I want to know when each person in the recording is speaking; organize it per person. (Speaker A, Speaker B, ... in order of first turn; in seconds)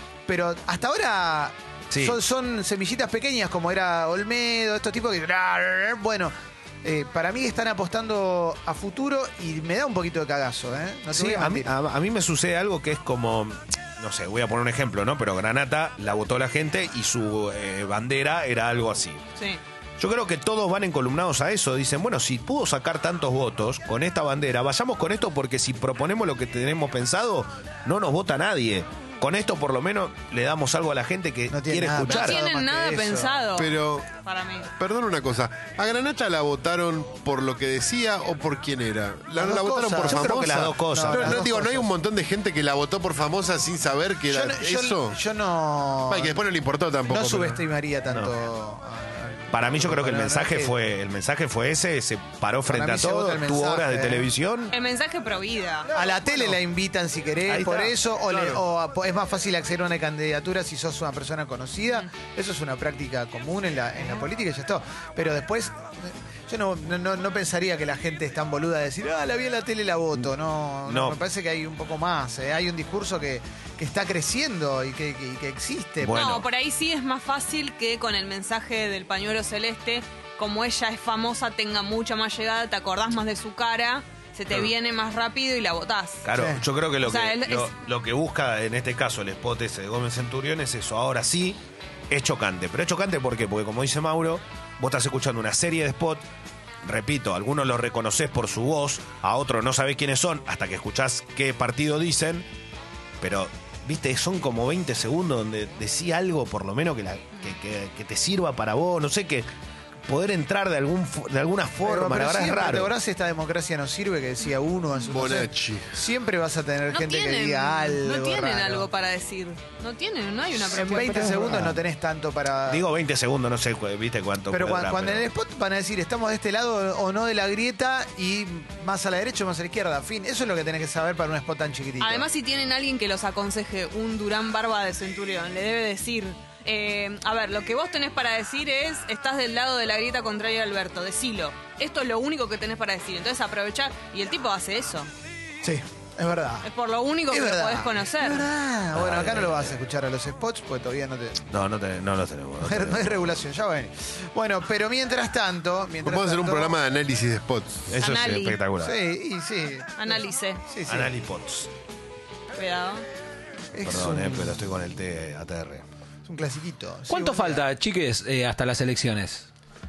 Speaker A: 0.3-11.7, 31.5-33.5, 39.3-41.9, 44.3-46.4, 47.1-50.7, 52.7-54.3, 55.9-76.3, 86.3-86.6, 111.8-118.9, 120.7-122.8, 124.5-132.3, 145.6-146.7, 147.3-151.4, 152.6-156.8, 158.8-161.1, 163.7-164.6, 166.2-167.7
Speaker B: 1.9-2.2, 11.1-19.2, 20.0-32.4, 40.0-41.5, 48.1-48.3, 49.5-54.7, 55.9-56.6, 57.5-58.6, 70.8-71.2, 76.0-76.5, 86.2-96.2, 96.8-102.5, 103.2-109.5, 110.1-112.9, 121.0-121.8, 122.7-125.3, 148.9-149.7, 151.5-153.4, 157.9-158.9, 160.8-161.7, 163.8-165.8
Speaker C: 32.0-33.7, 34.2-34.7, 54.7-55.9, 76.1-86.2, 87.0-87.7, 116.9-121.5, 132.0-145.1, 146.6-148.5, 158.0-158.6, 160.0-160.6, 162.6-163.1
Speaker D: 33.5-34.1, 34.8-45.2, 46.0-47.6, 115.1-115.9, 156.0-157.9
Speaker E: 167.1-169.5